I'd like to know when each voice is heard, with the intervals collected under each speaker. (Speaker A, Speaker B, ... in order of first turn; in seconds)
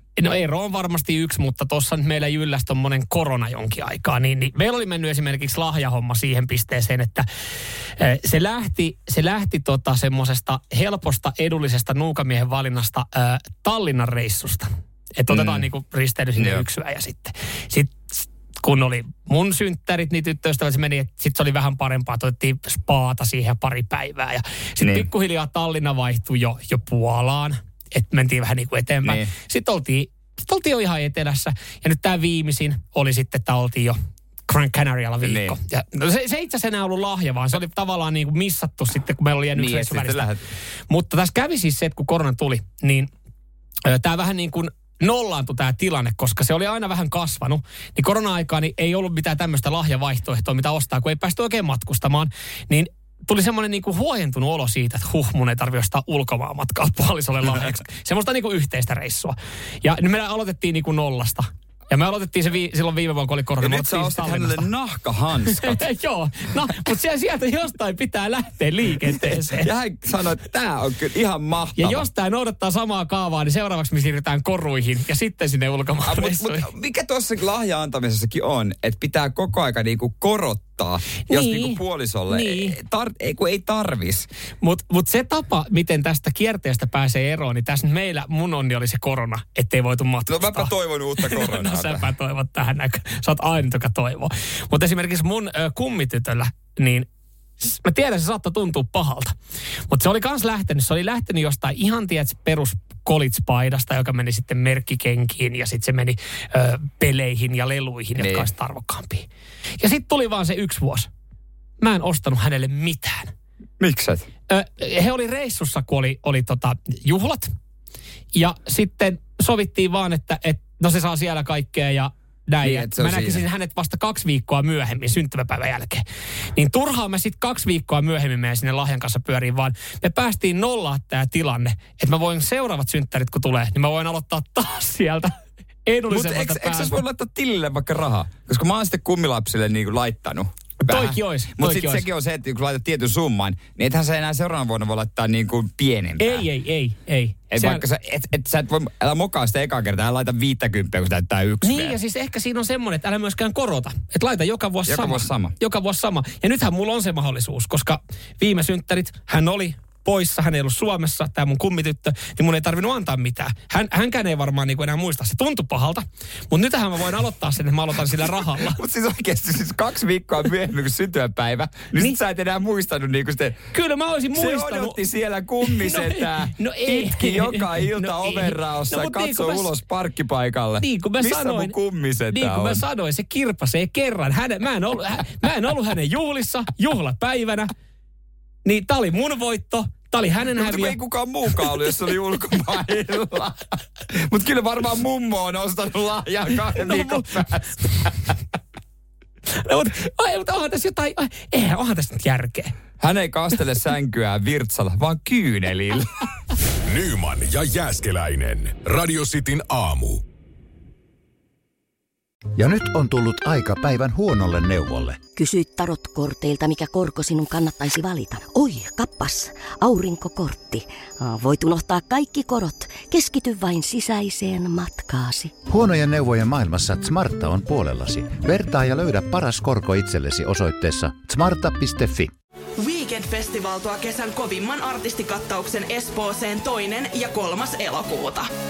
Speaker A: 0.2-7.3, 8.0-40.3, 40.9-43.1, 43.9-64.7, 65.5-69.7, 71.8-76.7, 81.3-82.8, 84.6-97.1, 97.6-99.3, 99.9-109.3, 109.8-111.1, 111.8-113.3, 114.5-117.5, 118.3-126.0, 126.5-136.9, 140.8-142.1, 146.2-147.8, 151.6-168.8, 173.7-175.0, 175.6-179.7, 180.8-181.7, 182.3-187.7, 188.7-191.0, 196.7-197.5, 199.6-202.8
Speaker B: 15.3-15.7, 16.4-16.6, 24.8-25.1, 29.0-29.3, 35.2-35.6, 39.5-40.5, 63.6-65.9, 69.0-72.1, 76.0-84.3, 90.3-92.1, 108.2-108.5, 113.8-114.3, 122.6-123.5, 136.1-146.4, 147.5-152.0, 154.9-155.6, 168.6-173.7, 174.3-182.8, 190.6-198.3, 203.0-206.1
Speaker C: 206.9-210.2
Speaker D: 212.6-215.2, 225.7-232.3
Speaker E: 215.4-225.5
Speaker F: 232.8-238.5